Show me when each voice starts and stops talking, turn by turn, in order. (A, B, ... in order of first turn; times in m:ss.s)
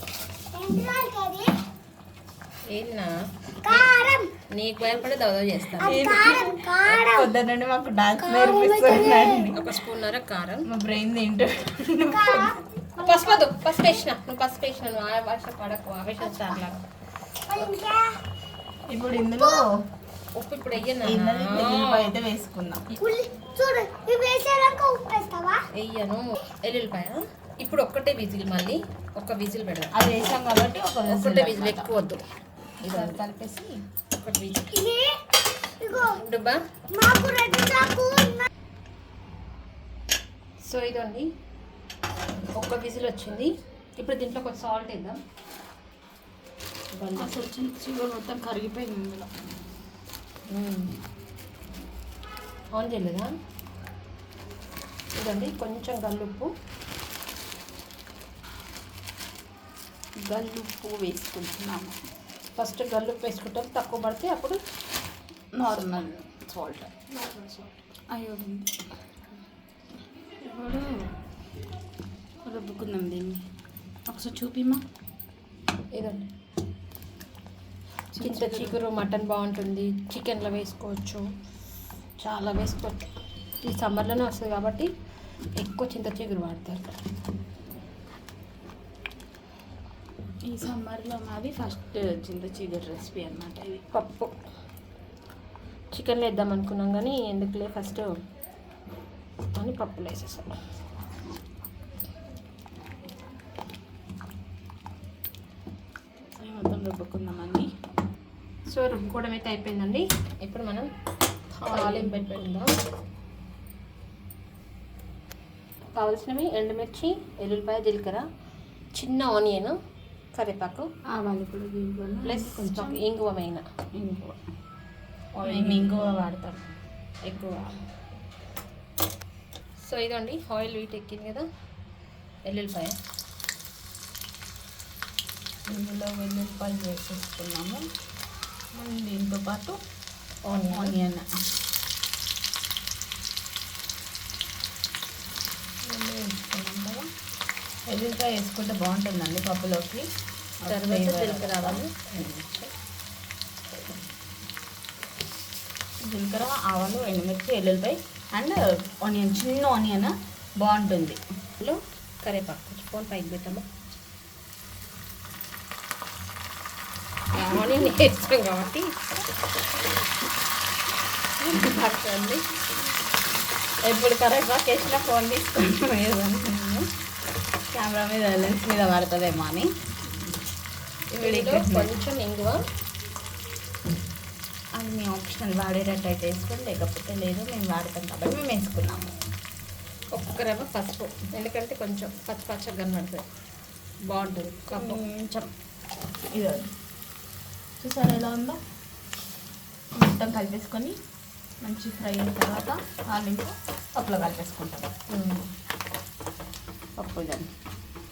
0:00.5-0:01.6 A
0:02.7-0:03.1 B
0:03.6-0:04.3 A
0:03.6-0:06.0 B
0:05.8-0:09.7 C
0:05.8-0:07.3 A
0:08.2-0:09.5 A
0:09.5-0:10.6 B
0:10.6-0:12.6 C
0:12.1-0:13.5 A
0:13.0-0:16.8 B
0:17.5-0:18.2 A
0:18.9-0:19.7 C
0:20.4-0:22.1 B
0:21.0-0:22.8 C
0:23.0-0:25.6 A
0:25.7-0:29.9 B
0:29.9-0:31.9 C
0:31.1-0:32.2 B
0:32.8-0:33.8 C
0:32.8-0:33.2 B
0:34.2-0:34.8 B
0:34.7-0:35.3 A
0:35.8-0:36.1 A
0:35.9-0:36.6 B
0:36.9-0:38.5 A
0:40.6-0:41.3 B
0:42.6-0:45.2 B
0:46.9-0:47.4 B
0:47.1-0:49.3 C
0:50.5-0:50.9 B
0:52.8-0:53.3 B
0:55.2-0:56.5 B
1:00.2-1:02.0 C
1:02.6-1:04.6 B
1:05.6-1:07.0 C
1:07.1-1:07.7 B
1:08.1-1:08.7 C
1:10.5-1:10.8 C
1:12.4-1:13.4 C
1:14.1-1:14.8 C
1:16.0-1:16.3 B
1:18.1-1:18.8 C
1:18.2-1:21.2 B
1:22.2-1:24.9 B
1:25.6-1:26.9 B
1:30.4-1:33.8 C
1:33.9-1:34.3 B
1:35.9-1:38.1 B
1:39.5-1:40.5 B
1:46.4-1:47.7 C
1:48.7-1:50.9 B
1:51.6-1:52.7 B
1:51.6-1:52.4 C
1:56.0-1:58.2 B
1:58.9-1:59.8 B
2:00.4-2:00.9 B
2:01.1-2:03.0 C
2:02.2-2:03.6 B
2:04.0-2:04.4 C
2:05.4-2:06.5 B
2:05.5-2:06.6 C
2:07.3-2:07.7 B
2:07.4-2:07.6 C
2:09.8-2:11.5 B
2:12.4-2:13.0 B
2:15.7-2:17.8 C
2:18.8-2:19.8 C
2:20.5-2:20.9 B
2:20.7-2:21.2 C
2:25.8-2:27.1 C
2:27.9-2:30.1 C
2:30.6-2:31.8 C
2:30.7-2:32.7 B
2:36.0-2:41.2 C
2:41.6-2:43.7 B
2:47.3-2:49.0 B
2:51.4-2:52.4 B
2:53.8-2:56.9 C
2:57.7-2:59.7 C
3:01.1-3:02.6 B
3:01.2-3:01.9 C
3:04.8-3:09.1 C
3:10.1-3:13.2 B
3:14.1-3:15.0 B
3:14.7-3:15.5 C
3:16.3-3:16.7 C
3:17.8-3:18.6 C
3:20.0-3:21.0 C
3:21.6-3:24.9 C
3:25.1-3:25.5 B
3:27.0-3:27.5 C